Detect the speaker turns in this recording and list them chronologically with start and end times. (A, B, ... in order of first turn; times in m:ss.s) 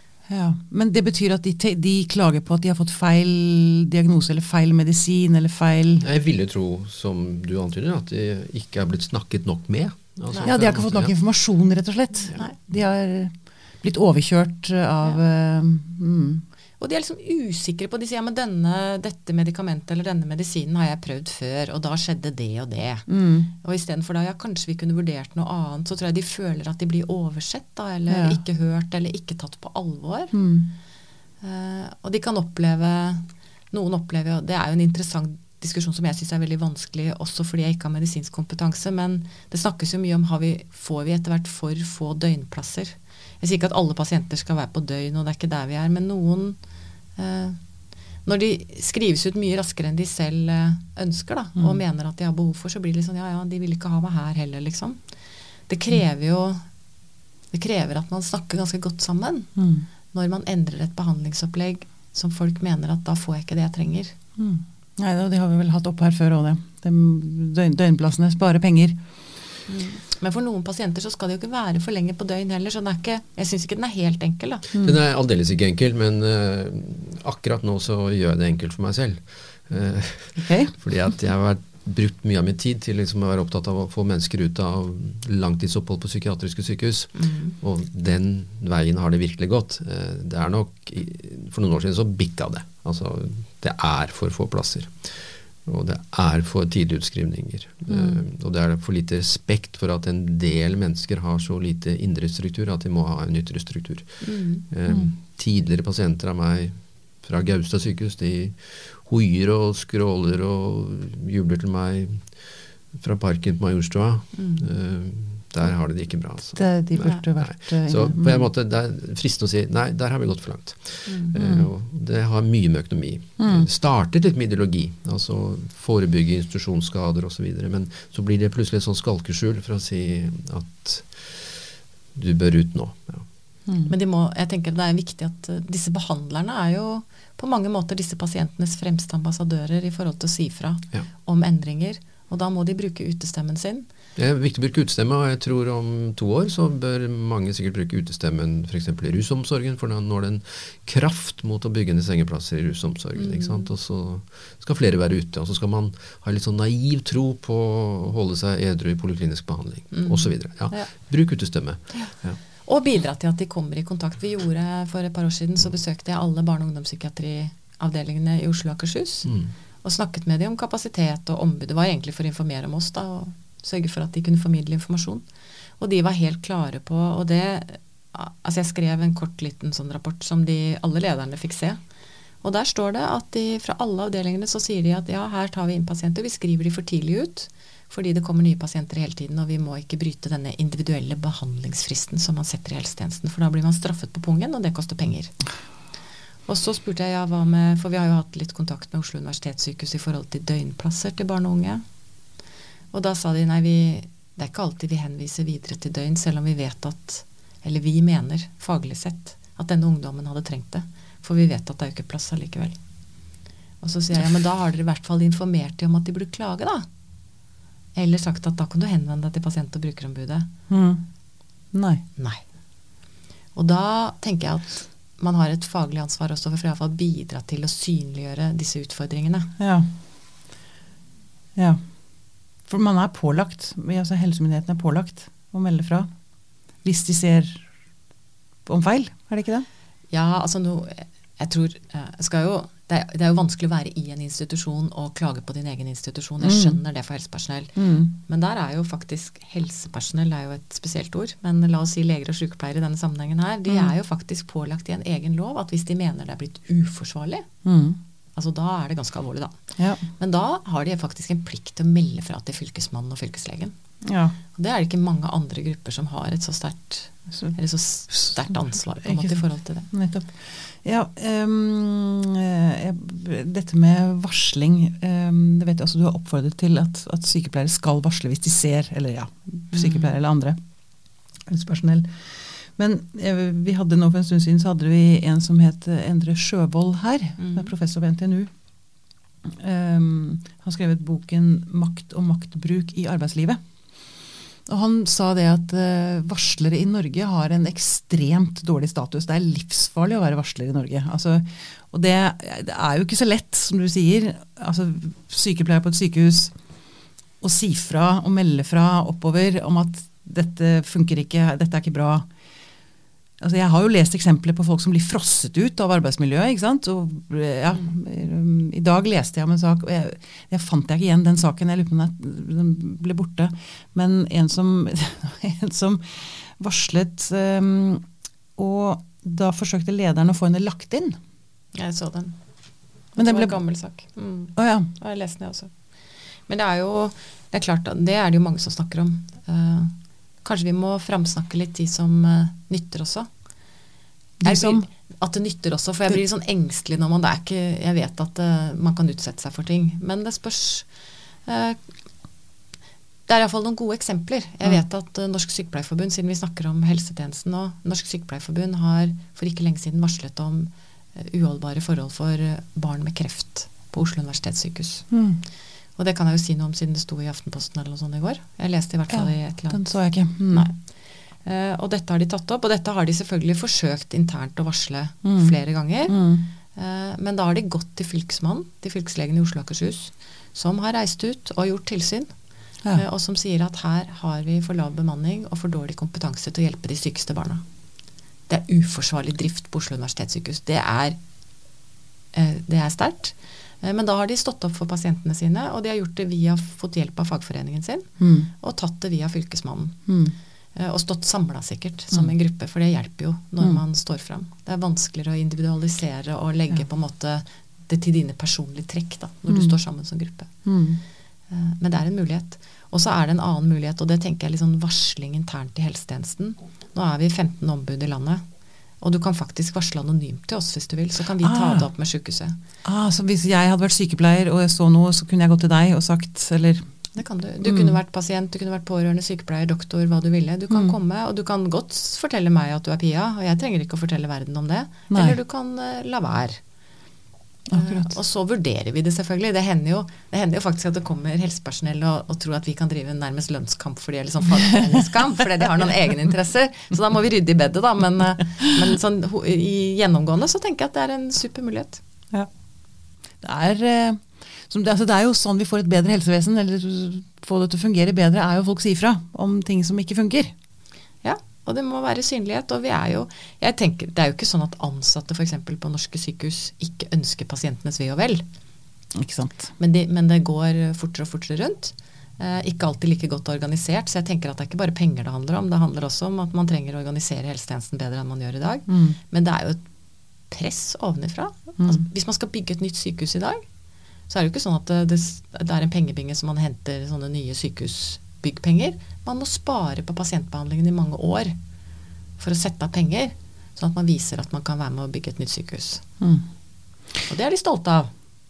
0:00.3-0:06.1 A
0:06.0-0:11.1 B
0:10.4-0:16.4 A
0:16.8-0:30.4 C
0:23.1-0:23.5 A
0:28.1-0:28.4 A
0:30.3-0:30.7 A
0:31.4-0:46.6 C
0:47.2-0:47.6 C
0:48.2-0:55.0 C
0:55.7-0:56.6 C
0:57.5-0:59.6 C
0:59.6-0:59.9 A
1:00.1-1:04.1 C
1:04.4-1:09.0 A
1:09.7-1:14.6 C
1:14.8-1:52.4 B
1:20.4-1:20.8 A
1:27.1-1:27.6 C
1:37.9-1:38.2 A
1:44.2-1:44.6 C
1:44.9-1:45.1 A
1:53.0-2:11.6 B
1:54.4-1:54.7 C
1:56.6-1:58.5 A
2:01.1-2:01.3 C
2:01.4-2:01.7 A
2:03.4-2:03.7 A
2:12.1-2:13.3 B
2:13.7-2:13.9 A
2:13.9-2:23.9 C
2:24.2-2:42.4 B
2:33.2-2:33.7 C
2:39.9-2:40.8 C
2:42.6-2:49.3 C
2:49.8-2:55.3 C
2:55.8-3:01.8 C
3:02.4-3:15.3 C
3:16.5-3:21.8 C
3:22.9-3:32.8 C
3:33.8-3:36.9 C
3:38.0-3:40.5 C
3:40.7-3:41.0 A
3:41.7-3:42.0 A
3:42.2-3:42.4 C
3:43.6-3:49.5 C
3:49.6-3:49.9 A
3:51.6-3:51.9 A
3:52.7-3:56.1 A
3:56.8-3:57.6 A
3:58.6-3:59.6 A
4:00.1-4:17.5 C
4:06.4-4:06.8 A
4:07.8-4:08.1 A
4:17.6-4:18.0 A
4:18.4-4:19.6 C
4:19.8-4:20.0 A
4:20.1-4:23.7 C
4:24.0-4:24.4 A
4:24.5-4:29.9 C
4:28.1-4:40.6 A
4:39.7-4:40.1 C
4:41.4-4:48.5 A
4:47.4-4:47.7 C
4:49.4-5:06.5 A
5:07.4-5:12.3 A
5:13.4-5:28.0 A
5:28.6-5:31.2 A
5:31.7-5:32.4 C
5:33.1-5:35.7 C
5:33.2-5:33.6 A
5:34.6-5:34.9 A
5:36.5-5:43.3 C
5:44.4-5:44.9 A
5:44.4-5:50.9 C
5:51.5-5:51.8 C
5:53.3-6:05.1 C
6:05.1-6:05.4 A
6:06.0-6:09.9 C
6:09.1-6:10.7 A
6:10.5-6:10.8 C
6:11.4-6:22.3 C
6:15.2-6:16.5 A
6:22.9-6:27.6 C
6:28.5-6:31.2 C
6:32.3-6:40.1 C
6:38.2-6:38.5 A
6:40.1-6:40.4 A
6:40.8-6:50.5 C
6:49.5-6:49.8 A
6:50.6-6:51.0 A
6:51.5-6:58.4 C
6:59.0-7:02.6 C
7:01.4-7:01.9 A
7:02.8-7:06.9 A
7:07.2-7:16.6 C
7:07.6-7:08.0 A
7:15.1-7:15.4 A
7:17.7-7:18.1 A
7:17.7-7:32.0 C
7:33.4-7:40.5 A
7:41.2-7:48.4 C
7:49.1-7:49.7 A
7:49.8-7:59.8 C
7:58.9-7:59.2 A
8:00.5-8:03.6 C
8:04.3-8:11.6 C
8:12.4-8:16.0 C
8:17.3-8:18.1 C